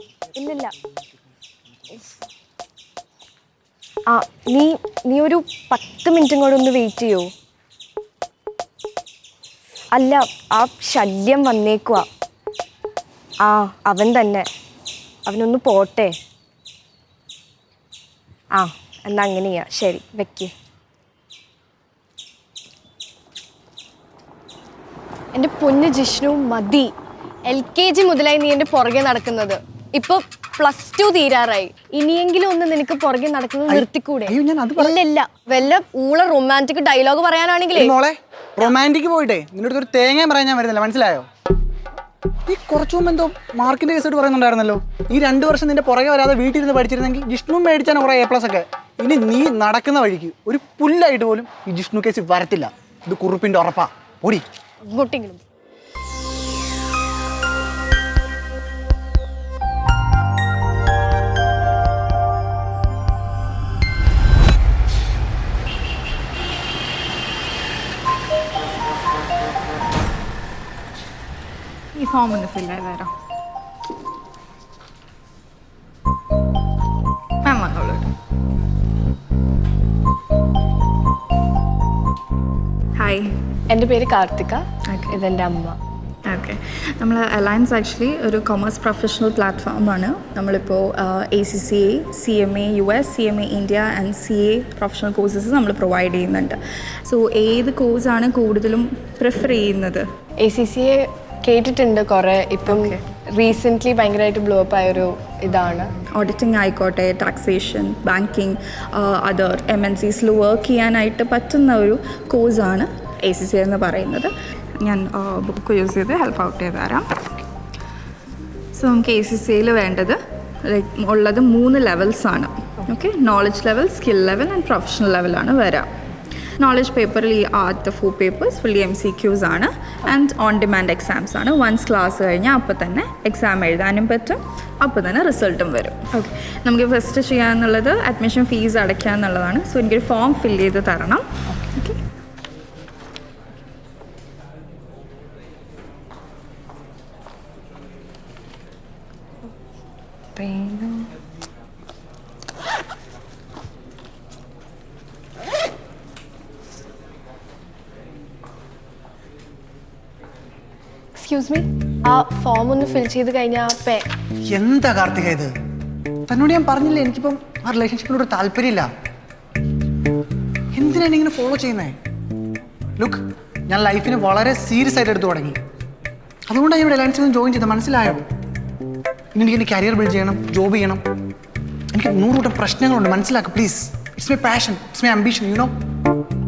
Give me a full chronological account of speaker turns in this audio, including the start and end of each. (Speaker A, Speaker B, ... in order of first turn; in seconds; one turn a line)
Speaker A: 0.3-0.7
Speaker A: 4.1-7.3
Speaker A: 9.9-12.1
Speaker A: 13.4-14.5
Speaker A: 15.3-16.1
Speaker A: 18.6-20.5
Speaker A: 25.3-26.9
Speaker A: 27.4-37.9
Speaker B: 33.7-35.0
Speaker B: 37.8-41.3
Speaker B: 42.5-54.5
Speaker A: 54.8-55.4
Speaker C: 72.0-73.1
Speaker C: 77.5-78.1
Speaker C: 83.0-83.3
Speaker A: 83.7-85.8
Speaker C: 86.3-100.1
Speaker A: 100.4-105.9
Speaker C: 102.7-103.0
Speaker C: 106.2-117.3
Speaker C: 118.7-125.9
Speaker C: 126.6-141.9
Speaker A: 150.4-151.1
Speaker A: 161.2-164.1
Speaker B: 164.5-165.5
Speaker B: 166.3-168.9
Speaker B: 170.7-172.0
Speaker B: 173.0-175.6
Speaker B: 176.5-178.2
Speaker B: 179.3-181.0
Speaker B: 181.9-185.7